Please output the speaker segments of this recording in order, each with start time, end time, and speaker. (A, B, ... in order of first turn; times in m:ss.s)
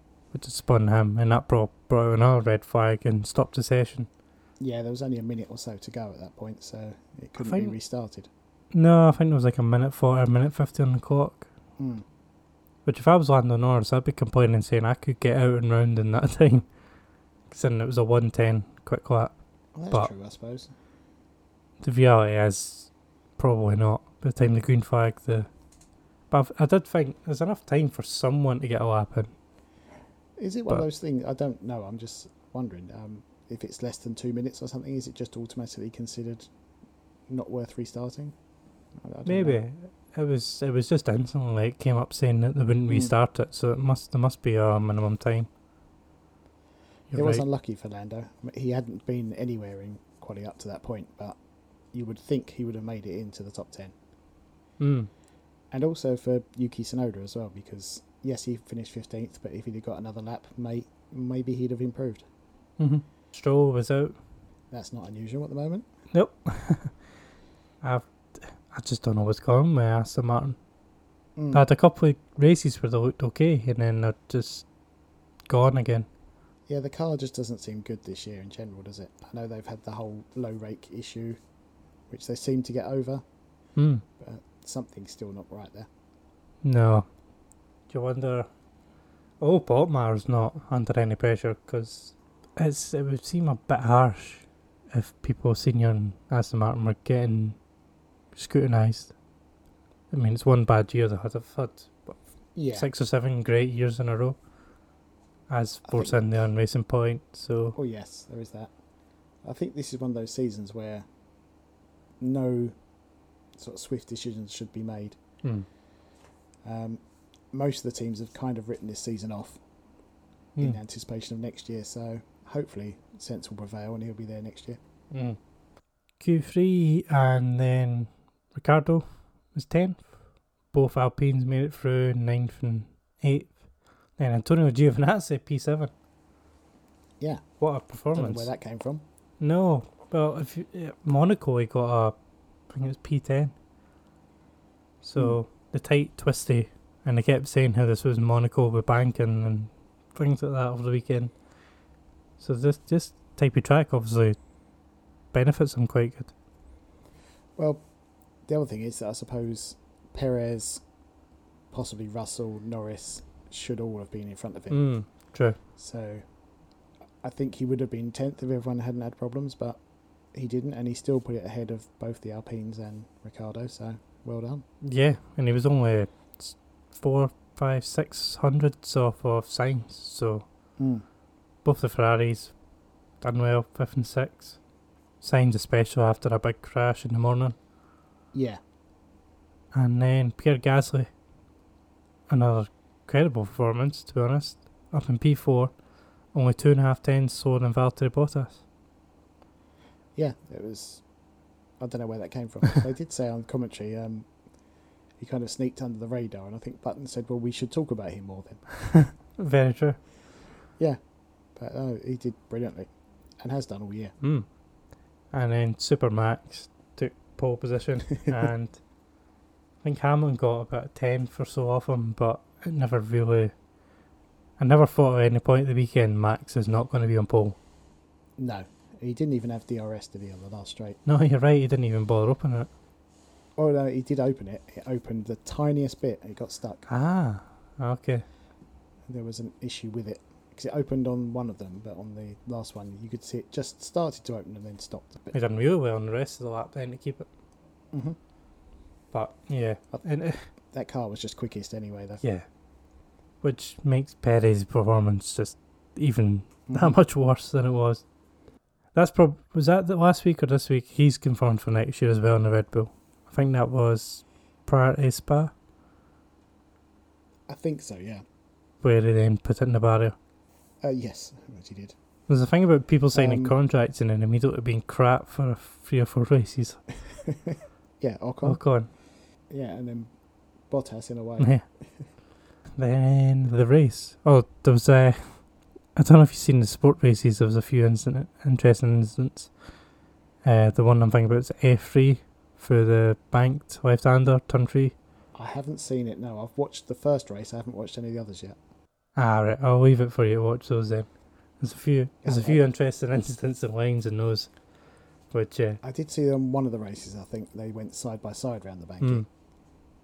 0:00.3-0:04.1 A
0:04.6-0:08.3 B
0:07.4-0:07.8 A
0:08.7-0:11.5 A
0:11.8-0:12.0 B
0:12.9-0:16.7 A
0:17.5-0:19.4 A
0:19.8-0:20.7 B
0:21.8-0:25.5 A
0:26.3-0:29.3 A
0:30.4-0:36.5 B
0:37.3-0:38.3 B
0:39.0-0:39.6 B
0:39.2-0:45.5 A
0:47.1-0:47.4 A
0:47.1-0:51.4 B
0:51.9-0:53.9 B
0:54.8-0:55.1 A
0:55.7-1:02.2 B
1:02.8-1:04.2 A
1:04.7-1:05.9 B
1:06.1-1:06.9 A
1:07.8-1:10.6 A
1:11.4-1:11.6 B
1:11.5-1:14.6 A
1:15.5-1:16.1 A
1:16.7-1:21.4 B
1:22.1-1:23.2 B
1:23.8-1:24.0 A
1:24.2-1:25.9 B
1:26.6-1:27.1 A
1:27.9-1:28.5 A
1:29.4-1:37.6 A
1:38.3-1:39.1 A
1:40.1-1:42.2 A
1:42.6-1:42.9 B
1:42.7-1:44.4 A
1:45.5-1:47.8 A
1:45.9-1:46.2 B
1:47.8-1:48.7 B
1:49.4-1:51.0 B
1:52.2-1:52.7 B
1:53.6-1:55.2 B
1:56.6-1:57.0 B
1:57.5-1:59.6 B
2:00.6-2:04.8 B
2:05.1-2:05.4 A
2:06.2-2:10.2 A
2:10.7-2:13.6 A
2:14.2-2:15.9 A
2:17.2-2:17.4 B
2:17.6-2:18.5 A
2:18.1-2:19.0 B
2:19.4-2:22.2 A
2:22.7-2:23.5 A
2:25.0-2:31.3 A
2:32.4-2:34.4 A
2:35.3-2:36.3 A
2:37.6-2:37.8 B
2:38.5-2:40.8 B
2:41.7-2:44.8 B
2:44.7-2:45.6 A
2:45.8-2:46.2 B
2:47.2-2:49.8 B
2:50.3-2:54.6 B
2:54.8-3:00.5 A
3:00.8-3:01.0 B
3:01.6-3:02.5 A
3:03.2-3:04.6 A
3:05.2-3:07.6 A
3:08.3-3:08.6 B
3:09.7-3:11.1 A
3:12.3-3:15.8 A
3:16.3-3:18.6 A
3:20.2-3:21.0 B
3:21.8-3:24.3 B
3:25.2-3:28.7 B
3:28.8-3:30.0 A
3:31.6-3:32.9 B
3:33.4-3:34.2 B
3:34.2-3:34.5 A
3:35.3-3:38.8 A
3:39.8-3:43.5 A
3:44.6-3:47.6 A
3:48.4-3:51.0 B
3:51.0-3:52.7 A
3:53.6-3:56.9 B
3:56.9-3:58.2 A
3:59.1-4:05.3 B
4:05.3-4:07.3 A
4:07.9-4:08.2 B
4:09.1-4:10.5 A
4:10.7-4:12.2 B
4:13.4-4:18.0 A
4:16.7-4:17.0 B
4:18.9-4:25.5 A
4:27.5-4:28.2 B
4:28.8-4:30.2 A
4:30.8-4:31.9 B
4:32.3-4:36.8 A
4:33.1-4:33.5 B
4:37.2-4:38.6 B
4:38.4-4:38.9 A
4:39.5-4:40.1 B
4:40.7-4:42.0 B
4:41.4-4:41.6 A
4:42.8-4:49.5 A
4:50.4-4:54.9 A
4:55.3-4:58.6 B
4:59.2-5:01.1 A
5:01.6-5:04.5 A
5:02.2-5:02.6 B
5:05.3-5:05.8 A
5:05.8-5:09.2 B
5:09.0-5:09.3 A